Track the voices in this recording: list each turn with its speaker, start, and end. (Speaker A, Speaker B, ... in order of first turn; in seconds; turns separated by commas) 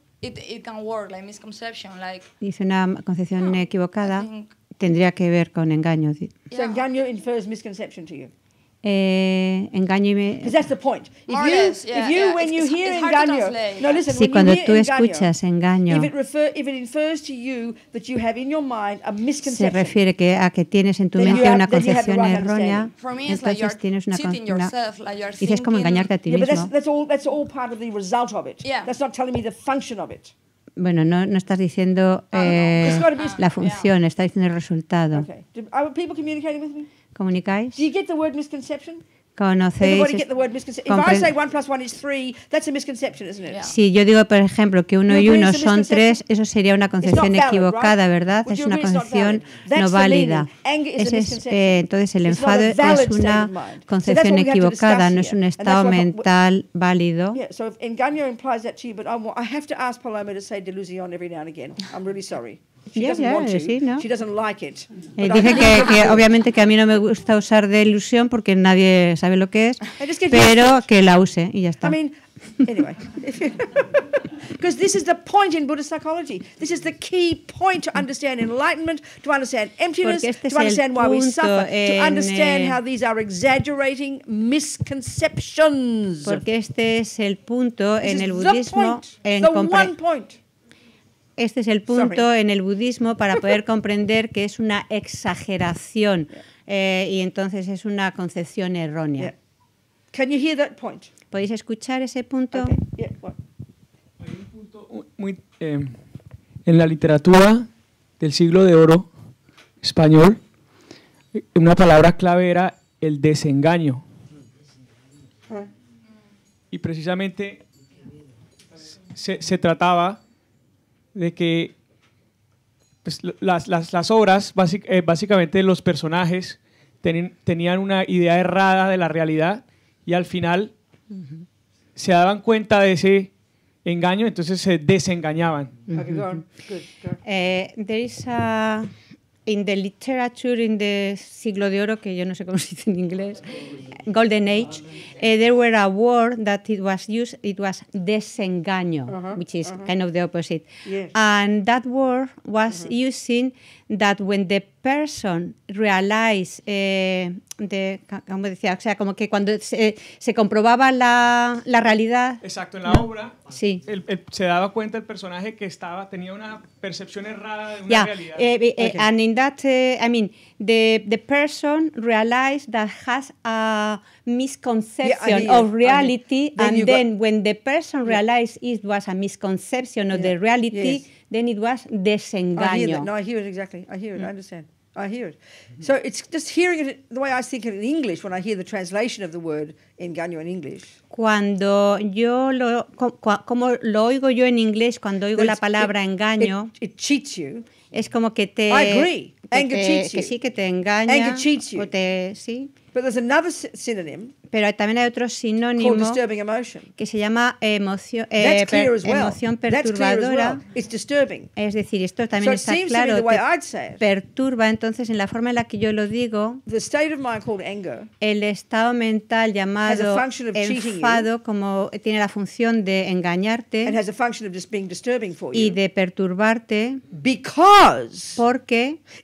Speaker A: 0.2-2.3, Speaker B: 2.4-6.4, Speaker A: 3.4-4.5, Speaker C: 6.5-8.3, Speaker A: 6.5-6.8, Speaker B: 8.8-10.5, Speaker C: 10.4-15.3, Speaker A: 11.3-14.1, Speaker B: 14.1-16.1, Speaker C: 15.9-20.0, Speaker B: 19.4-24.7, Speaker C: 21.1-22.9, Speaker A: 22.9-26.1, Speaker B: 25.4-26.7, Speaker C: 26.3-30.3, Speaker A: 28.6-28.9, Speaker B: 30.8-35.3, Speaker C: 32.3-33.4, Speaker A: 32.5-33.9, Speaker C: 35.1-36.9, Speaker B: 37.1-37.8, Speaker C: 37.8-39.0, Speaker B: 39.4-40.2, Speaker C: 39.8-43.7, Speaker B: 40.9-41.3, Speaker A: 43.5-43.7, Speaker B: 43.6-57.4, Speaker C: 45.1-46.2, Speaker C: 47.0-56.3, Speaker C: 57.3-66.2, Speaker B: 63.0-64.1, Speaker B: 65.2-72.0, Speaker C: 70.0-70.9, Speaker C: 71.8-86.4, Speaker B: 80.0-82.8, Speaker B: 86.2-89.9, Speaker C: 88.0-90.4, Speaker B: 91.4-99.3, Speaker C: 91.9-92.3, Speaker C: 100.1-101.1, Speaker B: 101.3-102.8, Speaker C: 102.5-103.4, Speaker D: 104.2-106.0, Speaker D: 106.7-109.1, Speaker D: 109.8-110.4, Speaker D: 111.4-114.0, Speaker D: 116.7-117.6, Speaker D: 119.1-120.2, Speaker D: 121.1-121.8, Speaker D: 123.0-130.7, Speaker D: 132.0-133.3, Speaker D: 133.8-135.8, Speaker C: 135.9-137.2, Speaker B: 137.2-138.9, Speaker B: 139.5-163.8, Speaker C: 149.1-149.9, Speaker C: 150.8-151.2, Speaker D: 162.4-168.4, Speaker B: 167.9-183.1, Speaker C: 175.0-177.1, Speaker C: 180.1-181.0, Speaker C: 182.6-191.0, Speaker B: 191.1-196.7, Speaker C: 195.4-197.7, Speaker B: 197.9-202.7, Speaker C: 198.7-200.3, Speaker C: 201.1-201.9, Speaker C: 202.9-204.3, Speaker B: 204.5-206.2, Speaker C: 205.8-206.9, Speaker B: 207.0-210.6, Speaker C: 208.4-211.5, Speaker B: 211.6-213.4, Speaker C: 212.4-214.0, Speaker B: 214.0-216.6, Speaker C: 216.7-218.1, Speaker B: 218.2-224.0, Speaker C: 219.9-221.3, Speaker C: 223.8-225.8, Speaker B: 225.5-227.0, Speaker C: 227.1-228.4, Speaker B: 228.4-229.0